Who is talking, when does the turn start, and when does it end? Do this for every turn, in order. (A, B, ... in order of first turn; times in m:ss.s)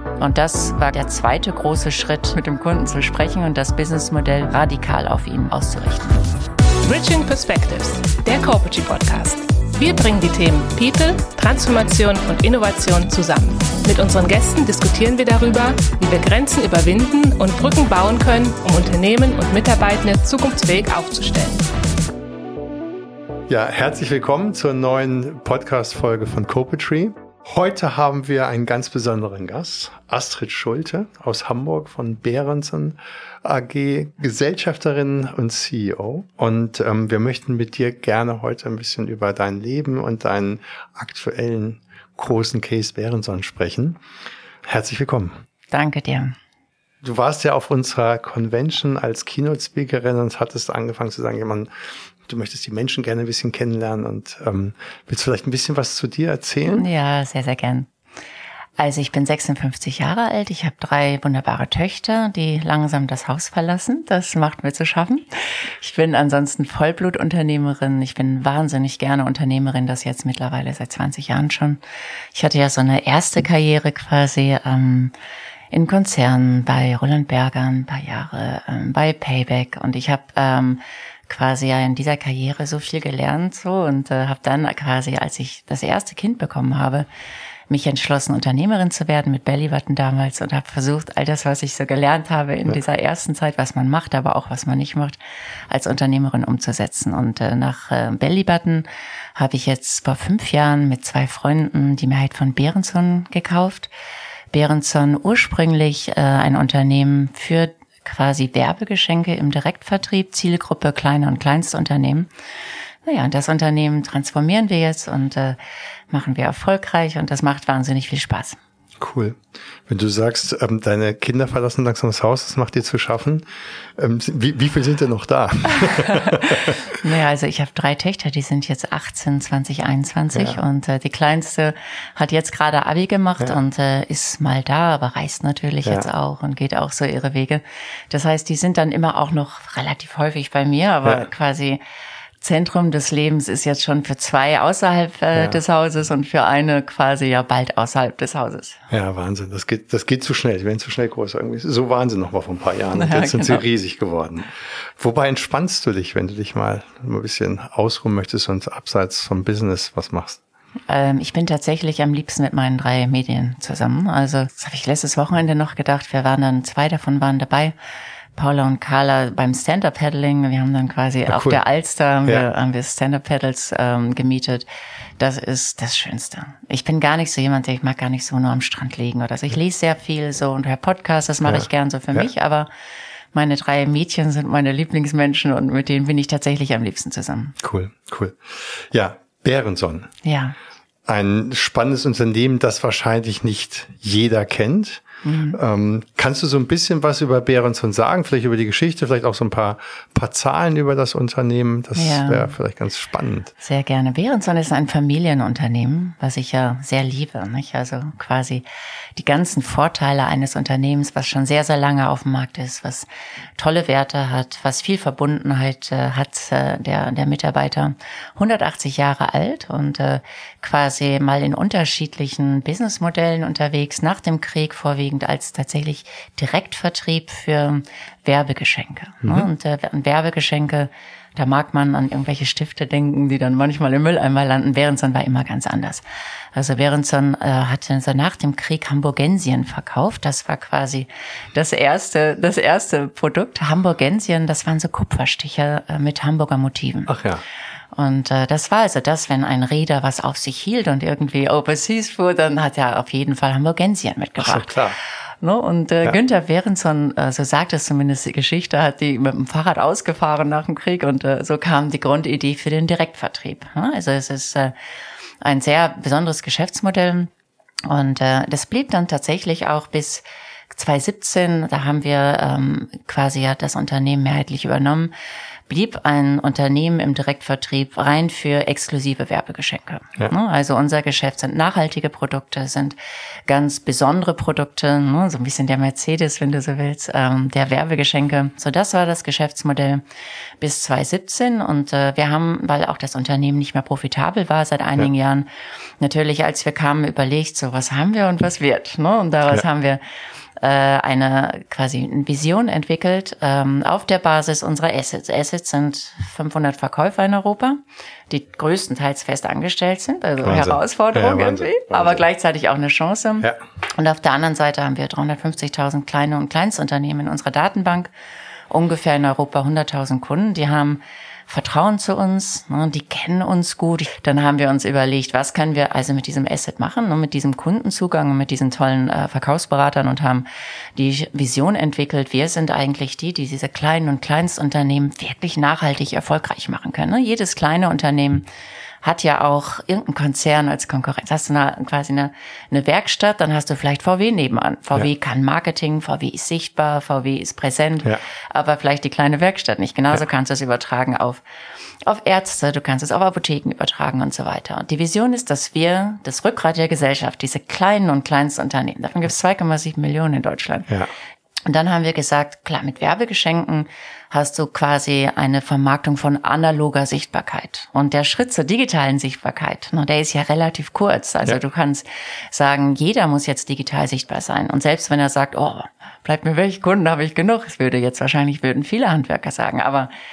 0:00.2-0:06.2 A
0:06.8-0:21.6 B
0:23.5-0:44.0 C
0:44.6-0:45.4 C
0:45.7-0:46.4 A
0:47.0-0:56.8 C
0:56.7-0:57.9 A
0:58.8-1:11.8 A
1:12.3-1:15.1 A
1:15.7-1:27.1 A
1:27.7-1:35.2 A
1:35.7-1:43.9 A
1:44.5-1:52.3 A
1:53.0-1:55.6 A
1:56.1-1:58.6 A
1:59.0-2:03.4 C
2:04.0-2:07.0 C
2:05.7-2:21.8 A
2:10.3-2:10.6 C
2:22.4-2:28.8 A
2:25.4-2:25.6 C
2:28.9-2:40.4 C
2:32.9-2:33.6 A
2:40.9-2:47.7 A
2:48.4-2:54.6 A
2:51.3-2:51.6 C
2:55.2-3:02.7 A
3:01.4-3:02.3 C
3:03.3-3:07.6 A
3:07.6-3:10.1 C
3:10.2-3:10.6 A
3:11.0-3:23.5 C
3:15.2-3:15.6 A
3:22.0-3:22.5 A
3:23.6-3:28.6 A
3:29.2-3:33.0 A
3:33.6-3:56.0 A
3:49.2-3:49.5 C
3:56.5-4:07.2 A
4:07.1-4:07.4 C
4:07.9-4:14.8 A
4:14.4-4:15.0 C
4:15.4-4:24.7 A
4:25.4-4:27.3 A
4:27.9-4:35.1 A
4:35.7-4:43.0 A
4:43.5-4:50.0 A
4:50.6-4:55.5 A
4:56.0-5:00.0 A
5:00.6-5:18.1 A
5:10.4-5:12.2 C
5:18.7-5:38.4 A
5:39.0-5:51.4 A
5:52.0-6:00.9 A
6:01.7-6:20.1 A